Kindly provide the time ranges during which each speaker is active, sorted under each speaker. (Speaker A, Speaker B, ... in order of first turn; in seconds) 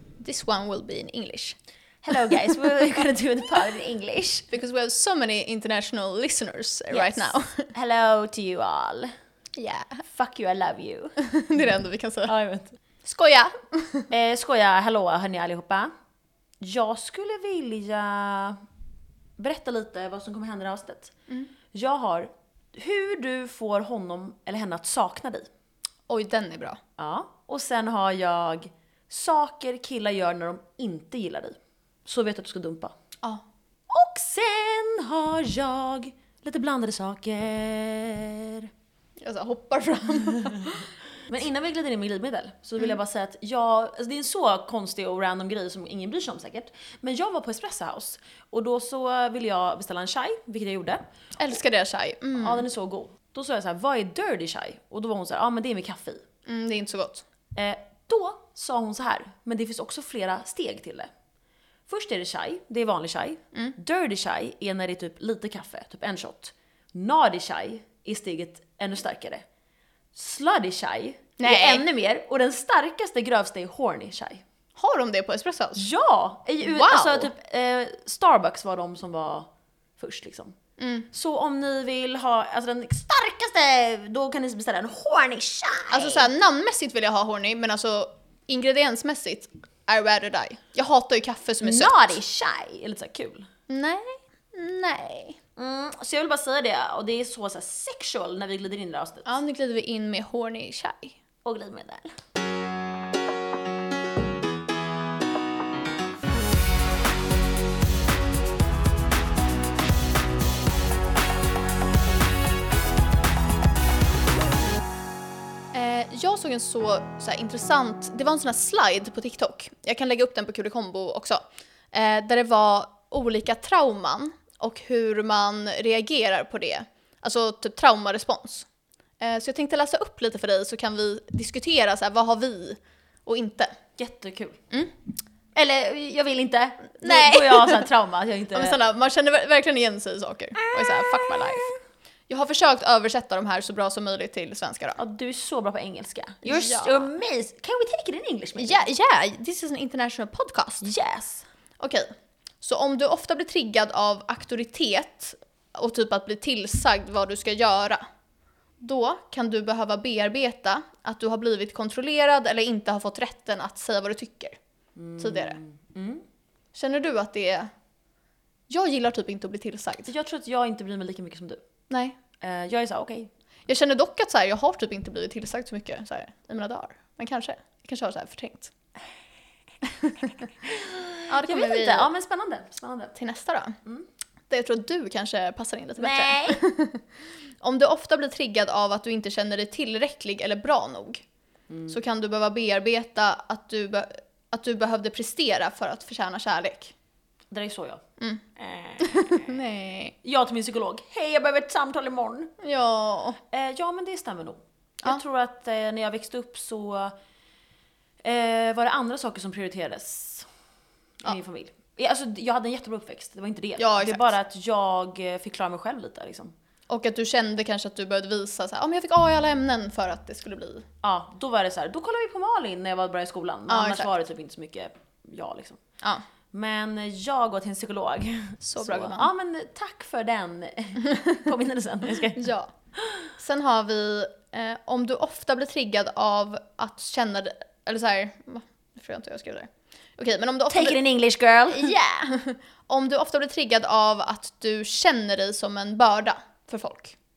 Speaker A: 0.2-1.6, 4.5-7.7, 9.6-10.0, 11.2-12.3, 13.0-14.1, 26.1-26.8, 39.2-40.9, 51.4-52.6, 56.5-57.2, 71.4-71.8, 74.8-75.9, 76.6-77.3, 80.8-81.1, 85.9-92.2, 93.7-95.4, 99.2-101.2, 115.7-128.7, 129.2-133.8, 137.0-137.9, 138.5-141.7, 142.3-145.0, 146.4-147.1, 148.6-150.9, 151.8-158.0, 158.8-164.6, 165.2-165.6, 166.7-167.7, 168.7-170.1, 171.9-172.2, 173.7-178.7, 180.0-180.3, 181.3-182.1, 183.1-183.8, 184.5-187.0, 187.6-191.2, 191.9-196.9, 199.0-200.1, 202.6-203.4, 213.8-214.3, 216.9-220.8, 223.7-224.1, 228.6-229.3, 231.1-231.4, 232.3-232.7, 233.4-241.0, 241.7-247.2
Speaker B: 2.0-4.5, 6.9-9.1, 10.0-11.2, 12.2-12.8, 14.1-15.9, 16.6-18.6, 19.4-21.1, 21.7-25.5, 27.0-32.9, 33.9-38.7, 41.3-51.0, 52.4-56.2, 57.5-61.1, 61.9-69.4, 70.1-74.4, 75.8-80.5, 81.1-86.3, 91.6-93.5, 95.6-99.3, 101.4-102.1, 134.0-134.6, 135.5-138.8, 140.6-141.8, 145.0-148.8, 150.8-151.5, 164.9-166.2, 170.1-171.6, 172.4-173.3, 180.6-183.1, 186.0-186.6, 191.7-192.0, 197.5-198.0, 198.6-199.5, 200.2-202.5, 203.5-207.1, 208.2-210.5, 211.2-216.5, 221.0-225.8, 226.5-232.5, 240.7-241.9